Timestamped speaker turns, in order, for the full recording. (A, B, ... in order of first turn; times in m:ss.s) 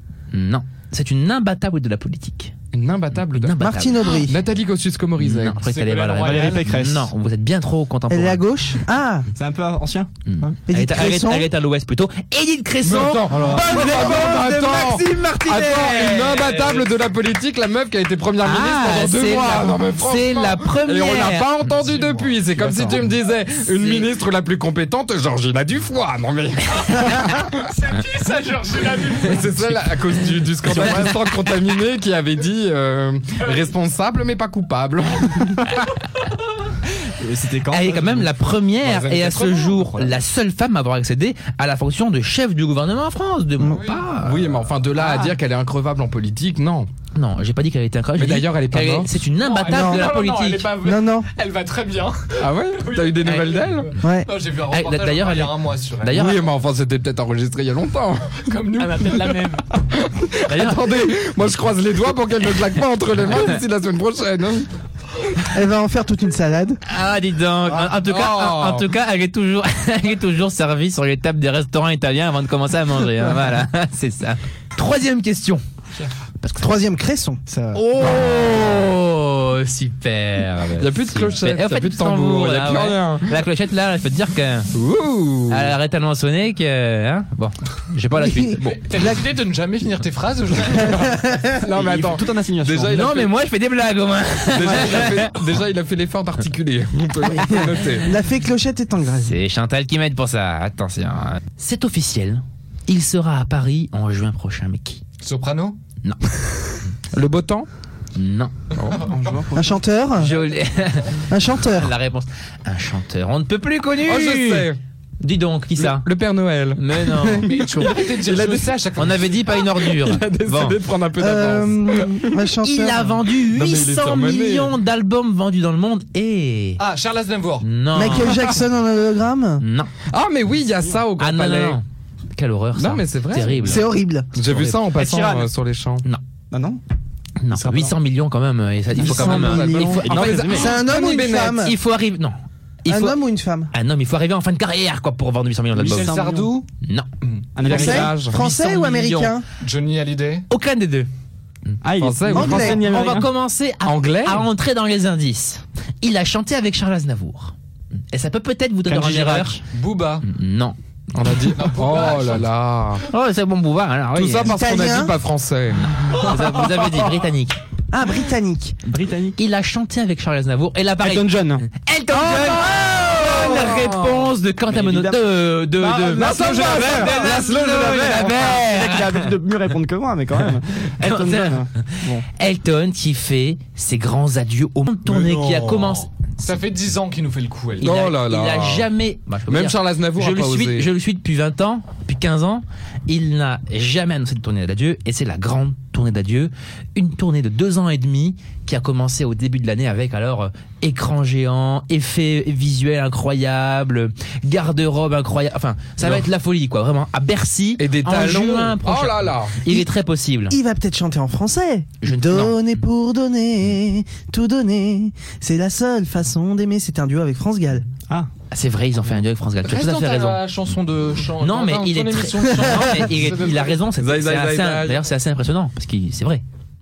0:00.3-0:02.5 A
0:02.7-0:05.6 B
0:03.3-0:04.1 A
0:03.6-0:04.4 C
0:05.2-0:08.4 A
0:05.6-0:06.7 D
0:06.2-0:07.1 E
0:08.1-0:09.3 C
0:09.4-0:10.5 E
0:10.2-0:16.8 A
0:10.6-0:11.5 C
0:12.8-0:27.6 B
0:13.3-0:13.7 E
0:13.8-0:14.2 C
0:18.4-0:21.5 A
0:22.6-0:23.0 E
0:23.5-0:24.1 A
0:27.5-0:29.6 F
0:29.1-0:35.7 B
0:30.6-0:31.3 A
0:37.2-0:38.4 E
0:37.7-0:44.5 A
0:38.8-0:39.8 B
0:39.8-0:40.0 D
0:44.1-0:46.9 B
0:47.1-0:50.7 A
0:48.2-0:49.1 B
0:49.4-0:52.2 F
0:49.7-0:50.1 C
0:50.8-0:51.3 C
0:52.4-0:53.9 B
0:52.9-0:53.4 F
0:53.2-0:53.7 A
0:54.0-0:54.3 C
0:54.2-0:56.2 D
0:54.7-0:56.4 A
0:56.1-0:59.4 B
0:58.5-0:59.6 F
0:59.9-1:04.7 B
1:00.4-1:01.0 A
1:05.5-1:06.8 C
1:06.8-1:15.6 A
1:07.8-1:08.9 B
1:16.6-1:17.4 C
1:17.5-1:17.8 E
1:17.7-1:24.7 A
1:18.0-1:18.5 B
1:20.8-1:23.3 B
1:24.7-1:25.7 B
1:25.5-1:28.8 A
1:28.2-1:29.2 C
1:28.8-1:31.2 D
1:30.7-1:31.5 C
1:31.4-1:33.3 B
1:31.7-1:33.0 E
1:32.9-1:35.3 A
1:34.5-1:38.1 B
1:34.8-1:35.0 E
1:37.2-1:39.3 C
1:37.5-1:37.9 A
1:39.2-1:45.0 A
1:45.2-1:45.8 D
1:47.1-1:47.7 B
1:48.1-1:48.5 A
1:48.7-1:49.1 B
1:48.9-1:49.8 E
1:49.5-1:50.4 C
1:50.2-1:54.7 A
1:51.3-1:51.9 C
1:54.0-1:54.8 B
1:55.2-1:56.0 A
1:55.8-1:58.5 B
1:56.8-1:57.5 A
1:57.4-1:59.6 D
1:57.7-1:58.6 F
1:58.9-2:00.8 A
1:59.6-2:02.4 B
2:01.2-2:03.2 C
2:02.6-2:06.8 A
2:03.4-2:04.8 B
2:06.8-2:07.7 D
2:07.6-2:08.5 A
2:07.9-2:09.6 C
2:09.6-2:09.9 A
2:10.1-2:11.8 B
2:11.2-2:11.8 A
2:12.3-2:14.8 A
2:12.8-2:16.0 B
2:13.6-2:14.3 C
2:14.9-2:15.5 E
2:16.5-2:16.8 E
2:17.4-2:20.8 A
2:17.5-2:17.9 E
2:18.9-2:21.8 C
2:19.0-2:21.7 B
2:21.6-2:23.2 A
2:22.8-2:23.7 C
2:23.7-2:26.2 A
2:25.8-2:26.6 D
2:25.8-2:26.6 E
2:26.8-2:27.1 A
2:27.5-2:28.2 E
2:27.6-2:28.4 B
2:27.7-2:29.4 C
2:27.9-2:29.3 A
2:29.6-2:30.5 D
2:30.5-2:31.1 A
2:31.8-2:33.3 E
2:32.0-2:32.8 B
2:32.3-2:32.8 C
2:32.6-2:37.5 A
2:33.8-2:34.5 B
2:38.1-2:39.6 A
2:38.9-2:39.6 E
2:39.7-2:40.3 D
2:40.2-2:40.8 A
2:41.1-2:43.0 B
2:41.5-2:42.5 D
2:43.1-2:44.5 A
2:44.1-2:45.9 B
2:44.4-2:45.1 C
2:46.0-2:47.6 A
2:47.9-2:48.8 C
2:48.8-2:49.4 E
2:49.4-2:59.3 A
2:51.0-2:51.6 E
2:52.3-2:54.3 B
2:52.3-2:52.6 E
2:54.7-3:02.2 E
2:56.2-2:58.6 B
3:01.0-3:06.1 A
3:05.0-3:07.9 D
3:07.8-3:30.6 A
3:07.8-3:08.9 B
3:09.5-3:10.9 B
3:27.8-3:29.6 B
3:30.5-3:37.9 C
3:32.0-3:32.6 A
3:38.5-3:40.4 A
3:39.6-3:43.5 D
3:41.4-3:46.4 A
3:42.5-3:42.8 C
3:43.1-3:45.1 B